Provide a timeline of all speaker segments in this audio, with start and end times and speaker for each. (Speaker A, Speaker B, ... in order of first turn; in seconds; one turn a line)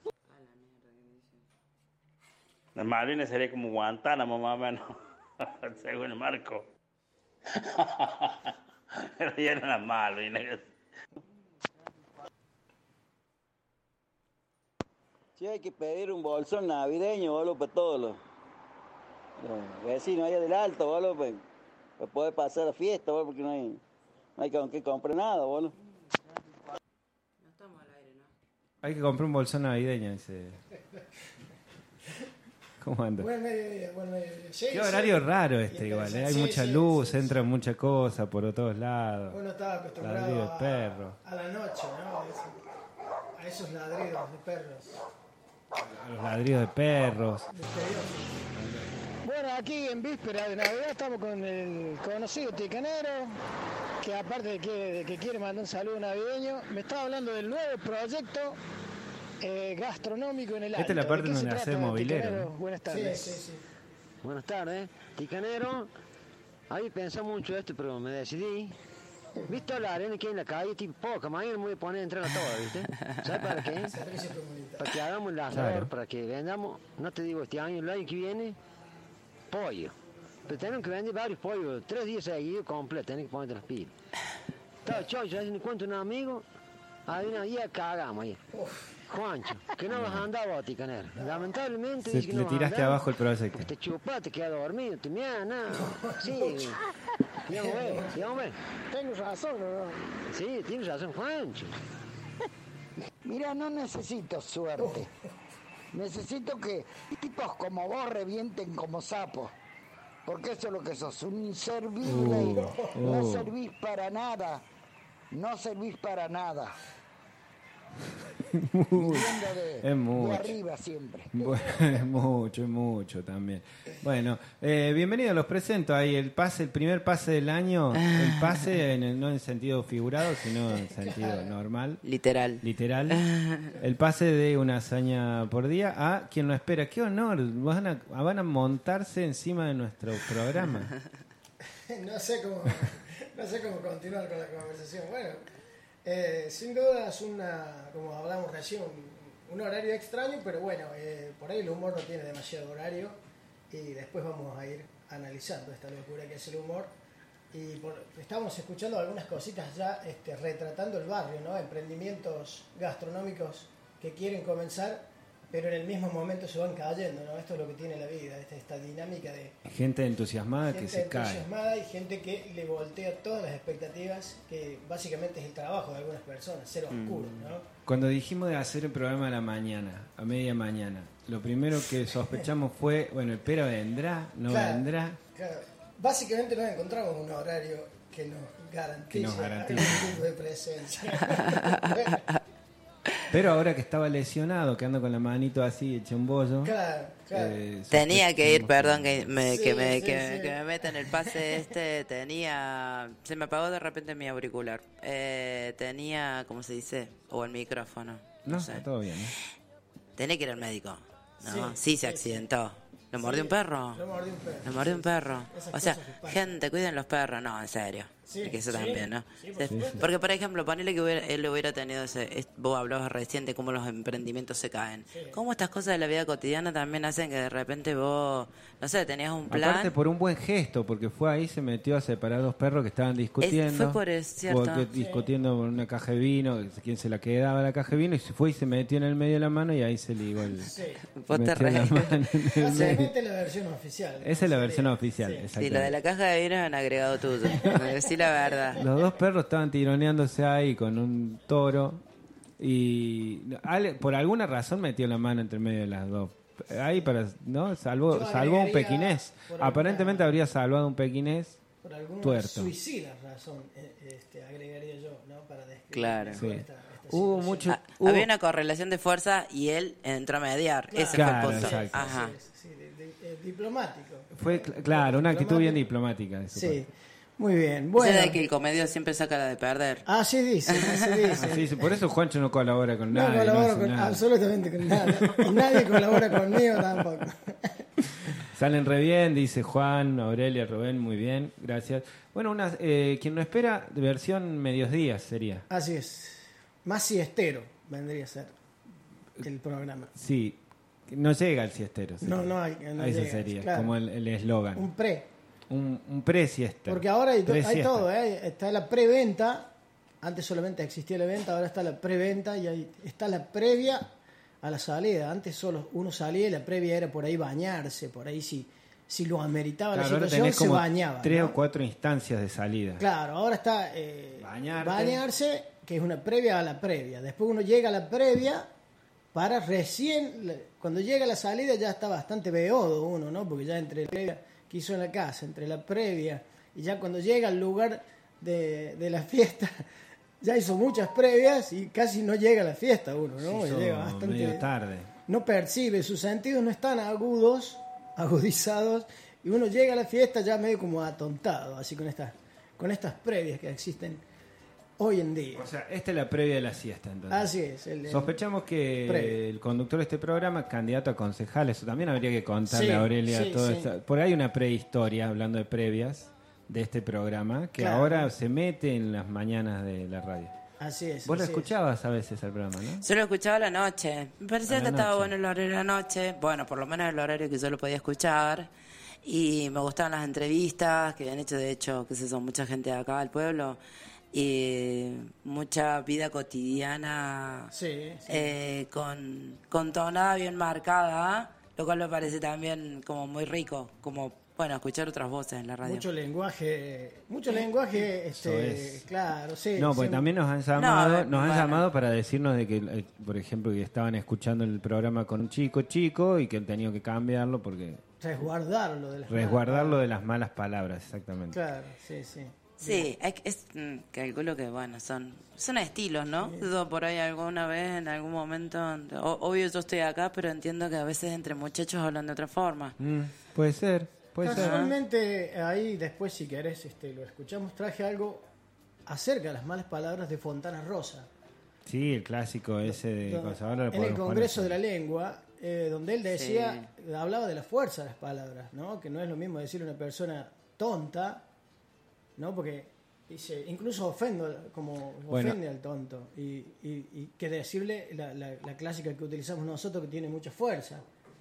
Speaker A: 0.3-1.3
Speaker B: 2.8-4.7
Speaker B: 5.9-6.5
Speaker B: 9.3-10.6
Speaker C: 15.4-18.2
Speaker C: 19.4-21.4
Speaker C: 22.0-23.8
Speaker C: 24.4-25.7
Speaker A: 27.4-28.3
Speaker D: 28.8-30.6
Speaker D: 32.8-33.3
Speaker E: 33.2-37.3
Speaker D: 34.7-39.4
Speaker E: 39.3-42.6
Speaker D: 40.0-41.2
Speaker E: 43.4-45.0
Speaker D: 45.8-47.5
Speaker E: 47.5-48.3
Speaker D: 48.5-48.9
Speaker F: 49.2-53.3
Speaker E: 49.8-51.0
Speaker F: 54.0-58.5
Speaker E: 57.7-58.0
Speaker F: 59.4-63.1
Speaker D: 60.7-62.5
Speaker E: 60.7-63.6
Speaker G: 64.2-65.9
Speaker G: 66.7-68.7
Speaker G: 69.5-73.9
Speaker E: 73.9-74.9
Speaker G: 74.8-78.6
Speaker D: 75.5-75.9
Speaker G: 79.5-79.9
Speaker G: 80.5-83.9
Speaker G: 84.8-86.4
Speaker G: 87.1-88.4
Speaker E: 88.5-88.9
Speaker G: 89.1-93.0
Speaker D: 89.9-90.2
Speaker E: 91.2-91.5
Speaker D: 92.0-93.7
Speaker G: 93.5-96.8
Speaker E: 95.9-96.3
Speaker G: 97.5-98.6
Speaker E: 97.5-98.3
Speaker F: 98.9-99.8
Speaker E: 98.9-100.0
Speaker G: 100.3-101.7
Speaker H: 103.2-105.1
Speaker H: 105.9-109.5
Speaker H: 110.2-114.6
Speaker D: 112.0-113.5
Speaker E: 112.4-112.9
Speaker H: 115.3-116.7
Speaker D: 118.4-120.6
Speaker H: 119.0-121.3
Speaker D: 121.3-132.0
Speaker A: 128.0-128.6
Speaker E: 130.8-131.5
Speaker A: 132.0-133.7
Speaker D: 132.6-140.9
Speaker E: 141.9-145.4
Speaker E: 146.0-153.2
Speaker E: 153.7-156.9
Speaker E: 157.5-169.6
Speaker D: 169.6-171.5
Speaker E: 170.7-177.6
Speaker A: 176.9-177.5
Speaker D: 177.8-185.2
Speaker E: 184.5-192.2
Speaker D: 189.1-190.2
Speaker A: 191.4-192.4
Speaker D: 193.3-196.7
Speaker E: 196.6-197.6
Speaker D: 197.3-199.3
Speaker A: 197.9-208.8
Speaker E: 199.4-200.6
Speaker E: 201.1-201.6
Speaker D: 208.4-209.3
Speaker A: 210.2-214.0
Speaker E: 211.4-212.4
Speaker E: 213.2-216.6
Speaker A: 214.6-229.9
Speaker E: 218.2-220.1
Speaker D: 219.7-220.0
Speaker E: 225.1-225.3
Speaker D: 229.5-240.7
Speaker A: 233.4-234.9
Speaker E: 234.9-235.3
Speaker E: 240.6-241.0
Speaker A: 241.2-243.0
Speaker D: 241.3-243.1
Speaker E: 242.6-245.5
Speaker D: 244.2-245.9
Speaker A: 245.6-248.8
Speaker E: 247.7-248.8
Speaker D: 248.8-252.0
Speaker D: 252.6-261.6
Speaker E: 258.1-260.3
Speaker E: 261.8-267.7
Speaker D: 262.2-262.7
Speaker A: 265.9-266.4
Speaker D: 266.4-268.3
Speaker A: 267.7-272.3
Speaker E: 270.9-275.8
Speaker D: 271.1-272.1
Speaker D: 274.3-276.8
Speaker E: 276.5-278.4
Speaker A: 278.0-280.0
Speaker E: 280.1-281.9
Speaker A: 280.7-281.3
Speaker D: 281.4-284.2
Speaker E: 283.1-287.8
Speaker D: 284.8-286.2
Speaker D: 288.5-295.7
Speaker E: 295.7-298.5
Speaker E: 299.4-300.1
Speaker D: 300.1-304.9
Speaker E: 302.2-303.9
Speaker E: 304.7-305.3
Speaker D: 305.7-308.1
Speaker E: 306.9-309.7
Speaker E: 310.2-321.6
Speaker D: 319.9-323.0
Speaker E: 323.0-328.7
Speaker D: 324.4-325.2
Speaker E: 329.3-339.8
Speaker E: 340.4-344.7
Speaker D: 343.4-345.1
Speaker E: 345.3-354.2
Speaker E: 355.0-355.6
Speaker D: 355.5-357.5
Speaker E: 357.3-358.3
Speaker D: 358.0-370.5
Speaker E: 359.0-359.4
Speaker E: 362.7-363.9
Speaker E: 367.8-368.3
Speaker E: 370.8-371.7
Speaker D: 371.2-373.0
Speaker A: 373.0-378.7
Speaker D: 374.6-375.3
Speaker A: 379.2-383.8
Speaker A: 384.3-387.7
Speaker E: 387.7-388.5
Speaker A: 388.3-396.1
Speaker E: 395.8-400.2
Speaker D: 398.3-399.1
Speaker D: 399.8-408.0
Speaker A: 400.8-401.8
Speaker E: 408.2-410.0
Speaker D: 409.3-411.6
Speaker E: 411.5-413.1
Speaker A: 412.8-422.9
Speaker E: 416.4-416.7
Speaker D: 423.0-424.9
Speaker E: 424.4-428.5
Speaker A: 424.5-424.9
Speaker E: 429.1-431.3
Speaker D: 431.9-434.8
Speaker E: 432.9-441.4
Speaker A: 436.3-436.9
Speaker E: 442.4-451.0
Speaker D: 445.3-445.6